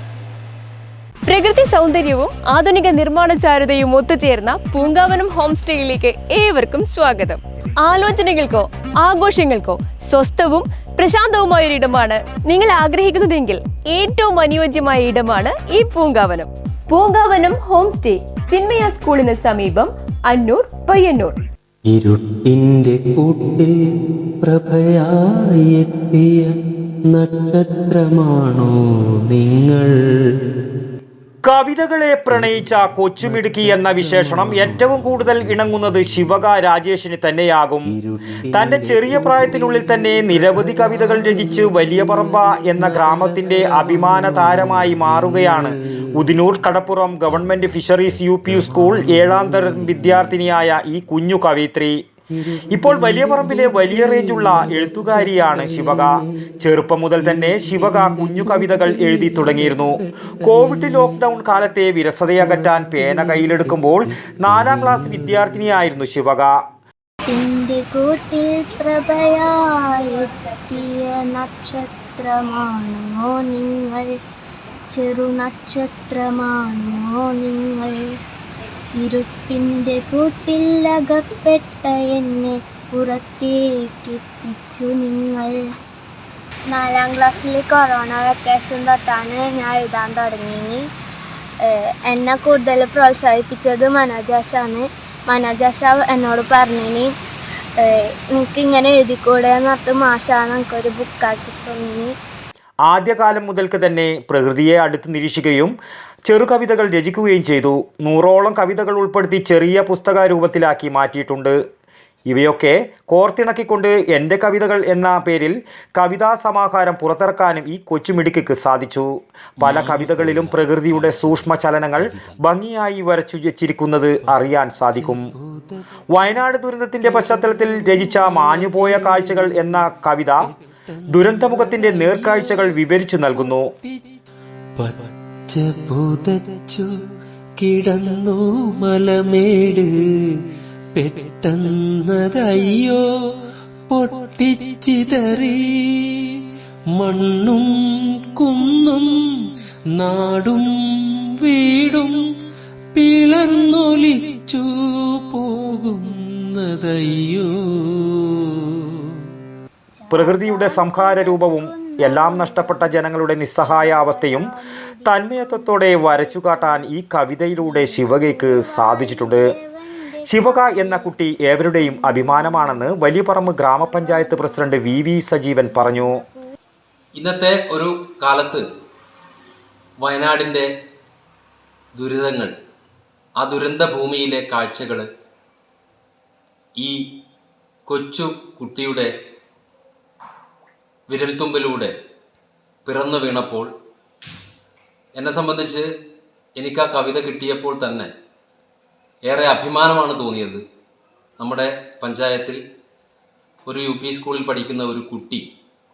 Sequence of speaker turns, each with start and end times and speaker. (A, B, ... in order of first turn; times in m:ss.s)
0:01.3-0:21.4 A
0:21.9-0:23.8 B
0:24.4-0:26.6 B
0:27.1-0:30.0 B
0:31.4-0:37.9 C
0:32.3-0:32.6 B
0:33.2-0:36.3 B
0:37.9-0:45.7 B
0:38.5-0:52.0 C
0:48.4-0:50.5 B
0:52.7-1:06.6 C
0:52.7-0:56.2 B
0:57.2-1:01.2 B
1:02.4-1:05.8 B
1:07.3-1:14.1 D
1:14.9-1:18.0 D
1:19.0-1:25.5 D
1:26.7-1:30.8 D
1:31.6-1:37.1 D
1:37.8-1:42.1 D
1:42.9-1:45.7 C
1:46.2-1:51.6 C
1:52.3-2:05.3 C
1:59.6-2:01.5 B
2:02.0-2:02.4 B
2:04.2-2:06.4 B
2:06.1-2:10.4 C
2:07.0-2:09.8 B
2:10.6-2:12.8 B
2:11.1-2:13.7 C
2:14.8-2:16.9 B
2:17.6-2:19.9 B
2:20.9-2:23.0 B
2:23.9-2:25.6 B
2:27.0-2:27.6 B
2:28.4-2:29.1 B
2:30.0-2:30.6 B
2:33.0-2:34.6 B
2:36.8-2:37.4 B
2:39.9-2:46.9 D
2:40.1-2:44.5 C
2:45.0-2:49.4 C
2:47.6-2:51.2 D
2:50.2-2:56.2 C
2:51.7-2:53.0 D
2:53.8-2:54.8 D
2:55.7-2:56.4 D
2:57.1-2:58.6 E
3:00.0-3:00.7 E
3:02.0-3:02.5 E
3:03.4-3:05.1 E
3:07.9-3:09.1 E
3:11.1-3:11.9 E
3:12.8-3:13.7 E
3:15.1-3:15.9 E
3:16.6-3:18.1 E
3:19.3-3:20.6 E
3:21.4-3:22.6 E
3:23.6-3:25.4 E